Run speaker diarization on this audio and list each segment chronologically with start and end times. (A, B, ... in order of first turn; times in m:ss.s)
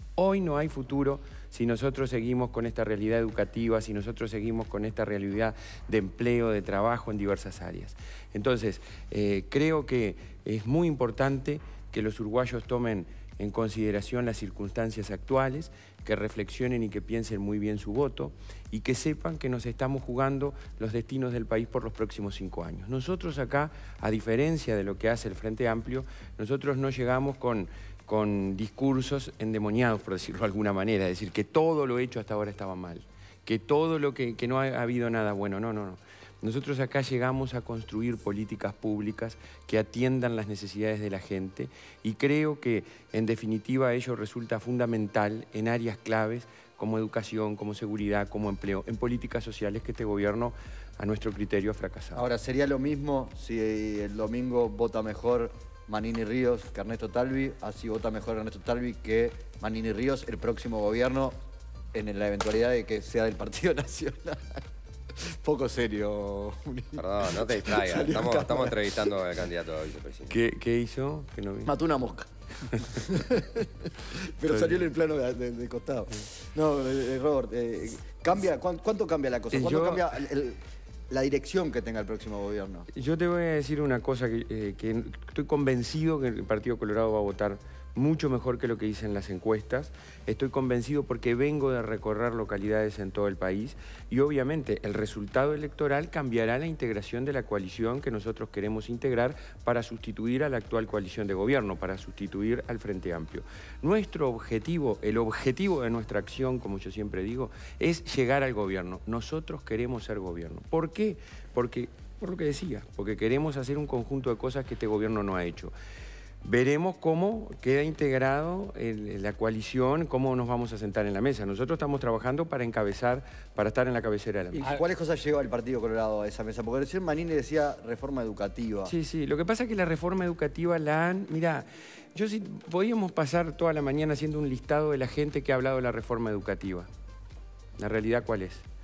0:00.2-0:52.2 A
0:52.1-1:01.4 B
1:01.9-1:04.6 B
1:05.2-1:09.0 B
1:07.0-1:10.4 C
1:10.3-1:11.7 A
1:11.6-1:20.6 B
1:19.5-1:20.1 A
1:21.1-1:22.9 B
1:22.9-1:55.7 A
1:56.4-2:04.6 A
2:04.6-2:08.9 B
2:08.8-2:16.9 A
2:17.8-2:18.6 A